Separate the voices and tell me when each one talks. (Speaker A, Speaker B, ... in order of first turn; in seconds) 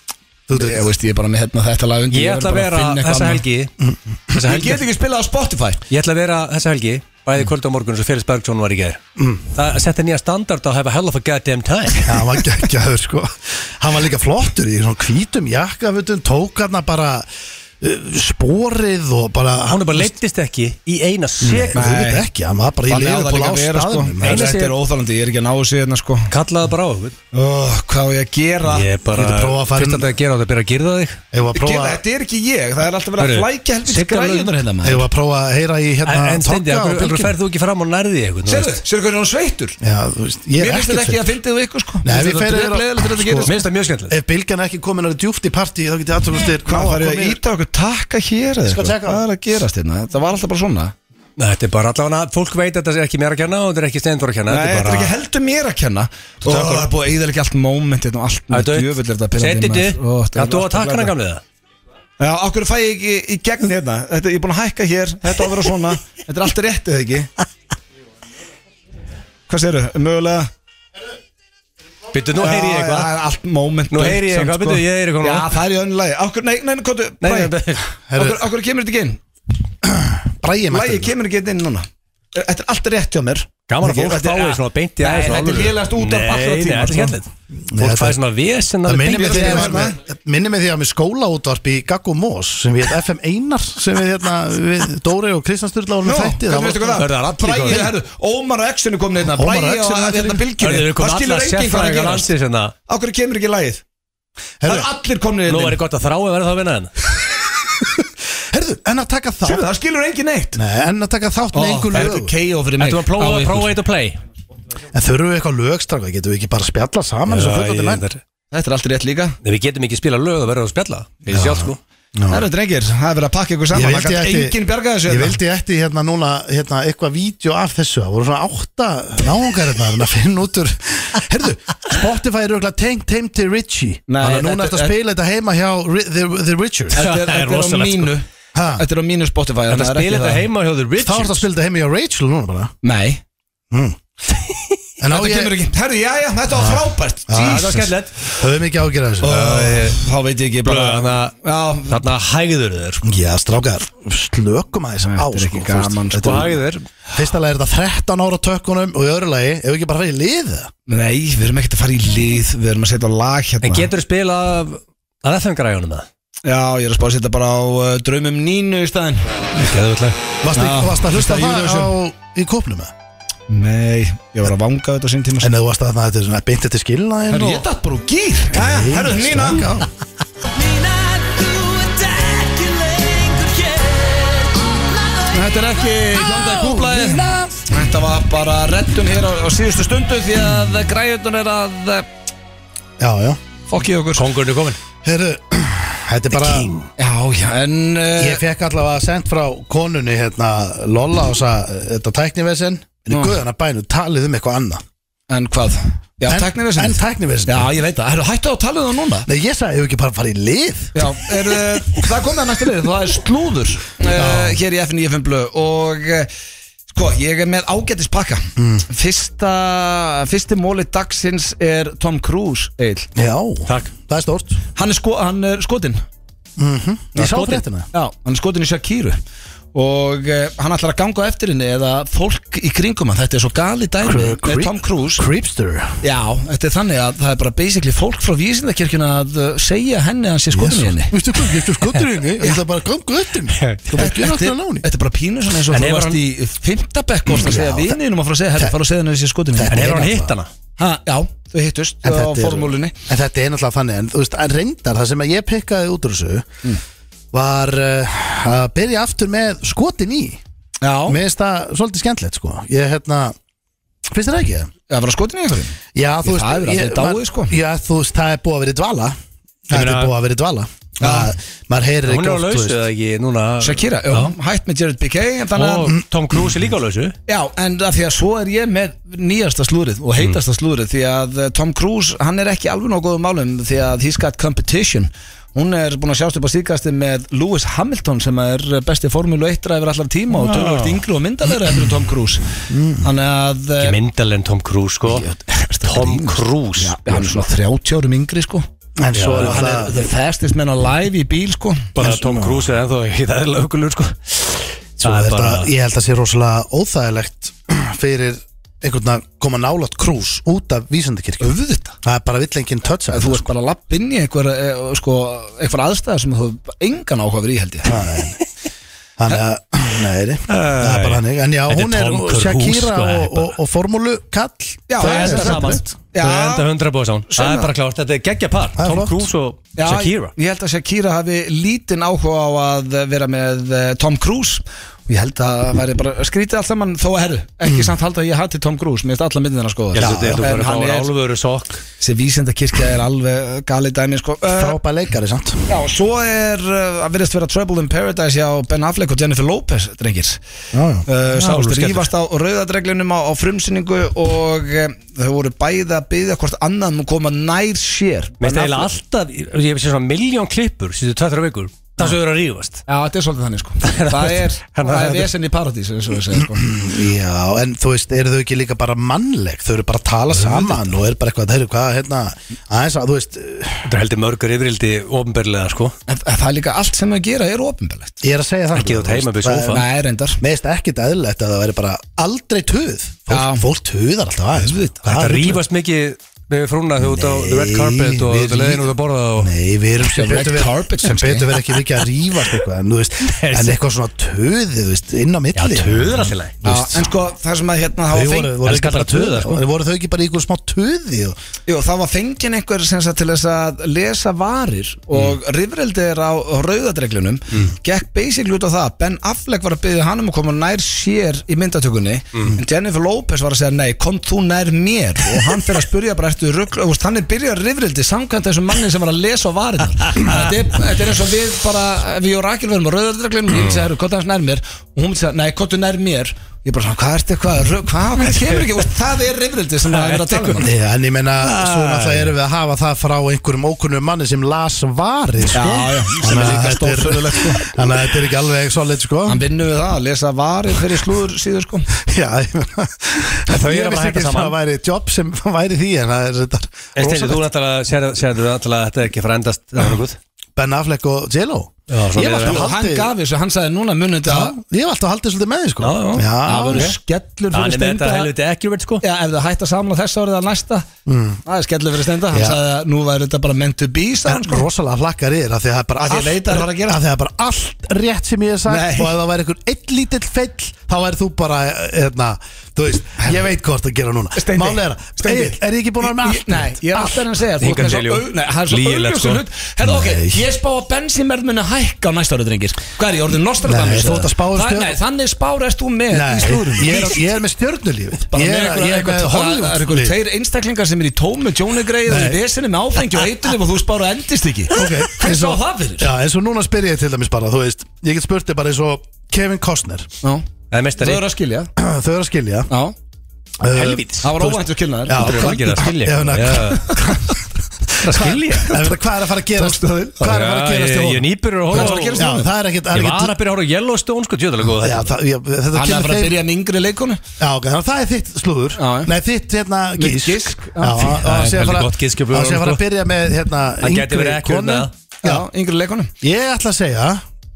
Speaker A: 0.5-0.8, 3.8-4.4, 9.2-9.5, 12.0-17.3, 17.8-20.1, 21.4-24.5, 29.1-30.1, 31.3-32.0, 34.8-37.4, 39.8-41.3, 42.0-43.5, 44.1-47.4, 48.6-49.2, 78.1-78.4, 79.8-81.1, 87.7-88.2, 88.8-97.0, 99.3-100.5, 104.6-104.9, 107.8-109.7, 110.5-112.3, 114.9-118.0, 121.3-122.5, 123.7-137.0, 138.5-138.8, 141.0-142.7, 143.7-144.0, 145.0-145.6, 146.5-149.6, 153.0-156.6, 157.1-160.7, 170.4-172.9, 175.4-177.7, 178.5-179.9, 186.4-187.4, 193.0-193.4, 195.0-196.7, 198.2-204.8, 206.2-207.7, 209.2-211.2, 214.1-214.6, 218.6-218.8, 223.1-224.6, 226.6-227.9, 234.0-236.0, 240.5-244.8, 247.3-247.9, 249.5-250.3, 252.0-256.5, 257.3-260.4, 261.1-263.4, 264.1-264.7, 265.9-269.1, 269.7-272.8, 292.7-293.1, 299.0-300.0, 302.0-302.7, 305.0-313.5, 317.8-318.4, 319.2-325.8, 328.8-329.3, 339.9-340.4, 344.5-345.6, 350.7-351.1, 366.3-373.9, 378.2-379.8, 380.4-385.6, 387.0-397.1, 398.1-401.4, 430.6-439.4, 441.9-447.4, 450.6-453.1, 454.2-456.9, 461.1-461.4, 462.3-462.6, 464.2-477.2, 479.8-480.4, 483.6-485.0, 486.1-490.2, 492.1-492.4, 494.7-500.1, 501.8-502.7, 503.6-507.2, 508.0-513.4, 514.8-516.4, 517.4-525.5, 526.2-527.2
Speaker B: 0.5-3.4, 4.4-5.8, 21.7-22.2, 22.9-26.3, 27.3-28.9, 31.5-35.0, 38.4-39.8, 40.6-43.6, 46.6-50.9, 54.5-61.1, 62.2-67.3, 69.5-70.5, 72.3-77.5, 78.1-79.2, 80.7-87.2, 89.0-90.0, 96.0-102.3, 102.9-103.8, 104.6-105.8, 109.4-110.6, 111.5-113.7, 118.5-119.4, 122.3-125.4, 134.1-134.9, 136.9-138.2, 138.8-140.4, 142.8-143.2, 145.1-147.9, 149.2-152.1, 155.0-156.5, 160.9-163.9, 166.4-169.3, 170.5-171.9, 173.5-175.5, 177.3-179.7, 180.6-183.5, 185.3-192.1, 193.7-194.3, 197.0-198.4, 203.1-203.4, 205.3-209.3, 210.9-216.3, 216.9-223.1, 224.8-226.0, 227.2-229.2, 229.7-235.3, 236.0-241.2, 243.9-250.1, 250.8-252.9, 260.8-261.2, 264.9-267.6, 271.0-271.3, 273.6-275.9, 277.3-292.4, 293.0-293.9, 295.1-298.6, 299.3-301.9, 311.4-311.9, 313.1-318.0, 324.9-326.7, 327.3-327.7, 329.8-341.1, 342.0-344.8, 345.7-350.4, 351.1-358.9, 362.9-366.7, 376.1-378.2, 379.7-380.4, 383.3-383.6, 384.6-385.1, 390.0-391.6, 396.6-398.6, 401.7-430.7, 435.5-437.7, 439.2-441.9, 452.4-454.6, 456.4-458.3, 459.0-460.9, 461.4-464.6, 466.0-467.0, 468.7-469.1, 474.4-487.2, 488.3-496.1, 501.0-501.7, 502.7-502.9, 504.2-505.7, 508.1-508.9, 509.5-510.3, 511.7-512.5, 515.7-517.2, 518.8-519.1, 520.0-521.1, 525.2-526.1
Speaker C: 2.1-3.7, 4.3-4.8, 5.9-9.0, 9.5-12.4, 19.7-21.9, 24.2-24.8, 26.3-27.1, 28.6-31.2, 33.2-34.5, 36.0-38.7, 43.5-44.1, 51.4-55.1, 56.4-56.9, 58.5-61.4, 72.1-73.1, 73.9-75.6, 77.2-77.8, 83.7-87.2, 87.8-89.9, 96.9-97.9, 100.6-102.7, 105.5-106.9, 112.8-114.2, 117.3-118.2, 119.4-121.8, 136.9-138.1, 139.7-141.4, 147.4-148.2, 149.2-150.0, 150.6-151.3, 151.9-153.0, 156.2-156.8, 163.6-166.1, 169.5-170.2, 182.6-184.1, 186.2-187.1, 194.1-194.8, 196.3-196.9, 223.7-223.9, 227.2-227.6, 243.6-244.2, 245.7-246.2, 249.7-250.5, 269.7-270.1, 272.1-274.3, 275.5-277.1, 290.3-291.0, 293.8-295.3, 295.8-297.4, 299.1-299.7, 301.9-305.7, 320.5-323.5, 325.0-330.3, 339.9-341.8, 351.3-352.1, 358.4-362.8, 363.8-365.3, 373.9-375.9, 378.7-379.8, 385.1-389.5, 393.3-393.8, 395.6-396.6, 398.6-399.6, 423.5-423.8, 428.4-428.6, 429.9-430.7, 431.4-432.3, 443.5-444.6, 446.9-450.2, 451.9-452.7, 455.8-456.9, 457.5-459.0, 477.6-479.4, 500.7-501.2, 503.7-504.5, 505.1-507.0, 508.0-508.8, 510.2-512.2, 512.9-515.1, 521.1-522.8, 523.8-524.9